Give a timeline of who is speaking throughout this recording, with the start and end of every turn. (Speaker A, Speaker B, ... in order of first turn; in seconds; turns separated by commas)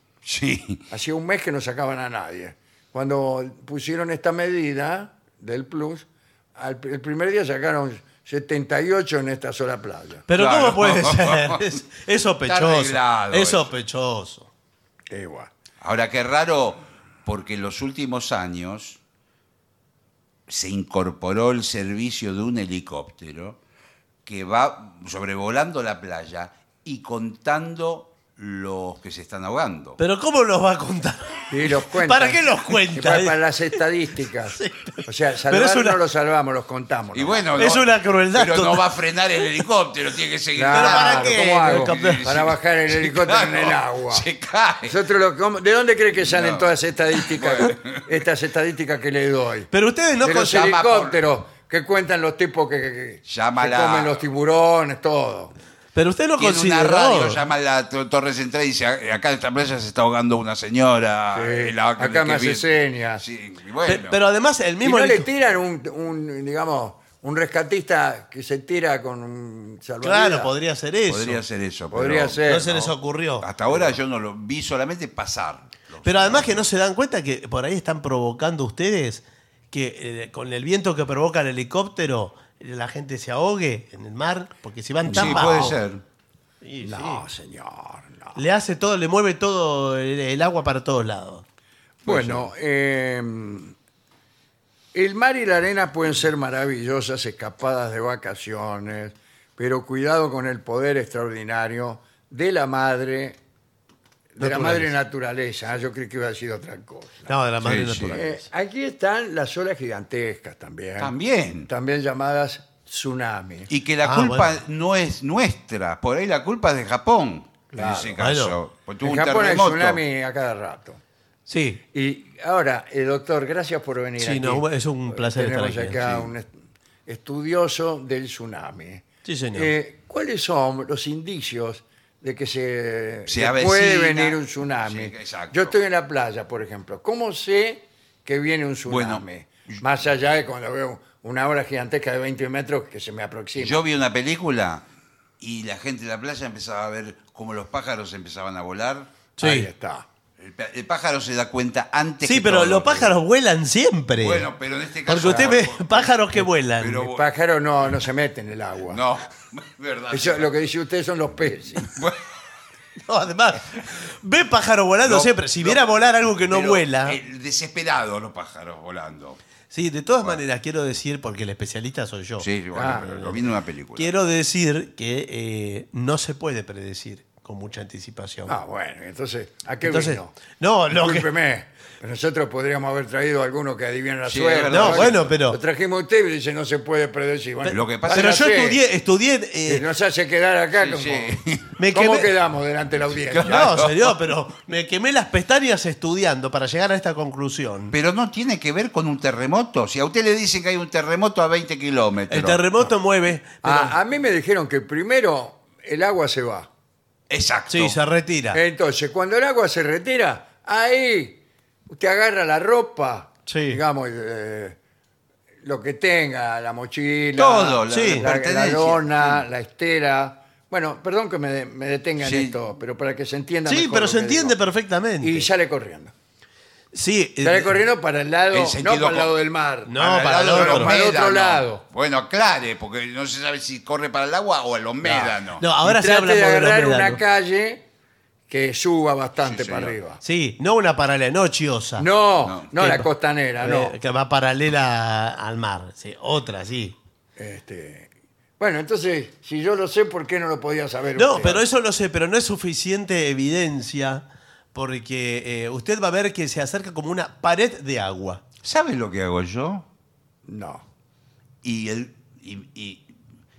Speaker A: 0.2-0.8, Speaker B: 0.9-10.2, Speaker C: 10.3-14.5, Speaker A: 10.4-11.7, Speaker A: 12.4-13.7, Speaker B: 15.1-15.5, Speaker A: 15.8-19.0, Speaker A: 20.5-23.6, Speaker A: 24.3-30.0, Speaker C: 30.0-33.8, Speaker B: 31.5-37.7, Speaker C: 34.5-36.0, Speaker A: 37.1-45.0, Speaker C: 37.6-38.8, Speaker B: 40.5-44.2, Speaker C: 40.7-42.5, Speaker B: 44.9-49.7, Speaker A: 46.2-48.0, Speaker C: 49.7-50.8, Speaker B: 50.2-55.5, Speaker A: 50.5-51.2, Speaker A: 53.3-54.2, Speaker C: 56.0-57.4, Speaker A: 56.4-64.2, Speaker B: 61.3-63.2, Speaker C: 63.9-65.3, Speaker B: 64.8-70.5, Speaker C: 70.0-71.4, Speaker A: 71.1-76.6, Speaker B: 71.9-72.8, Speaker C: 72.5-73.5, Speaker C: 76.0-85.8, Speaker A: 85.1-86.0, Speaker C: 86.6-87.2, Speaker B: 86.8-88.4, Speaker C: 88.4-91.5, Speaker B: 92.0-93.8, Speaker A: 92.1-92.5, Speaker B: 94.9-103.4, Speaker B: 104.4-107.3, Speaker C: 104.4-104.9, Speaker C: 107.3-108.4, Speaker A: 107.6-108.2, Speaker B: 108.1-111.1, Speaker A: 111.0-111.7, Speaker B: 111.7-113.7, Speaker A: 113.7-120.0, Speaker C: 114.0-114.6, Speaker B: 117.7-118.2, Speaker C: 118.2-118.6, Speaker B: 119.0-121.0, Speaker C: 121.5-121.8, Speaker B: 121.9-126.5, Speaker C: 124.2-126.3, Speaker B: 127.1-143.8, Speaker C: 129.2-129.7, Speaker A: 133.3-135.8, Speaker A: 138.9-139.8, Speaker A: 143.6-144.8, Speaker A: 145.4-149.1, Speaker C: 149.4-149.7, Speaker B: 149.4-150.1, Speaker A: 150.4-153.2, Speaker C: 152.2-154.5, Speaker A: 154.2-157.3, Speaker C: 155.1-157.1, Speaker B: 155.2-155.5, Speaker B: 157.1-159.0, Speaker A: 158.9-160.5, Speaker B: 160.1-161.9, Speaker A: 161.8-162.2, Speaker C: 163.1-167.2, Speaker A: 165.1-165.8, Speaker A: 166.5-169.4, Speaker C: 169.7-173.4, Speaker A: 172.4-174.1, Speaker B: 172.7-173.1, Speaker C: 174.0-178.6, Speaker B: 178.5-180.3, Speaker C: 179.8-181.3, Speaker B: 180.9-188.8, Speaker A: 184.3-185.3, Speaker C: 184.7-185.6, Speaker C: 187.7-189.9, Speaker A: 187.7-188.4, Speaker B: 189.7-191.4, Speaker A: 190.8-191.8, Speaker C: 191.8-192.3, Speaker B: 191.9-193.7, Speaker A: 193.3-194.2, Speaker C: 193.4-197.9, Speaker A: 197.9-202.9, Speaker C: 202.3-204.0, Speaker B: 203.6-206.7, Speaker A: 207.3-208.0, Speaker C: 207.7-208.6, Speaker B: 208.5-214.8, Speaker C: 213.5-213.8, Speaker B: 215.6-224.6, Speaker A: 217.4-219.4, Speaker C: 217.9-218.3, Speaker A: 222.2-222.6, Speaker C: 223.7-225.5, Speaker B: 225.2-226.1, Speaker C: 226.9-227.8, Speaker B: 227.4-231.8, Speaker A: 228.5-229.3, Speaker C: 229.9-231.0, Speaker A: 230.0-235.6, Speaker B: 235.0-237.8, Speaker C: 235.6-237.2, Speaker B: 238.5-240.2, Speaker A: 239.4-239.9, Speaker C: 240.2-242.1, Speaker B: 242.0-243.9, Speaker C: 242.8-243.1, Speaker C: 243.6-247.0, Speaker B: 247.4-251.6, Speaker C: 251.2-258.4, Speaker A: 258.6-259.9, Speaker B: 260.5-260.9, Speaker A: 261.6-263.1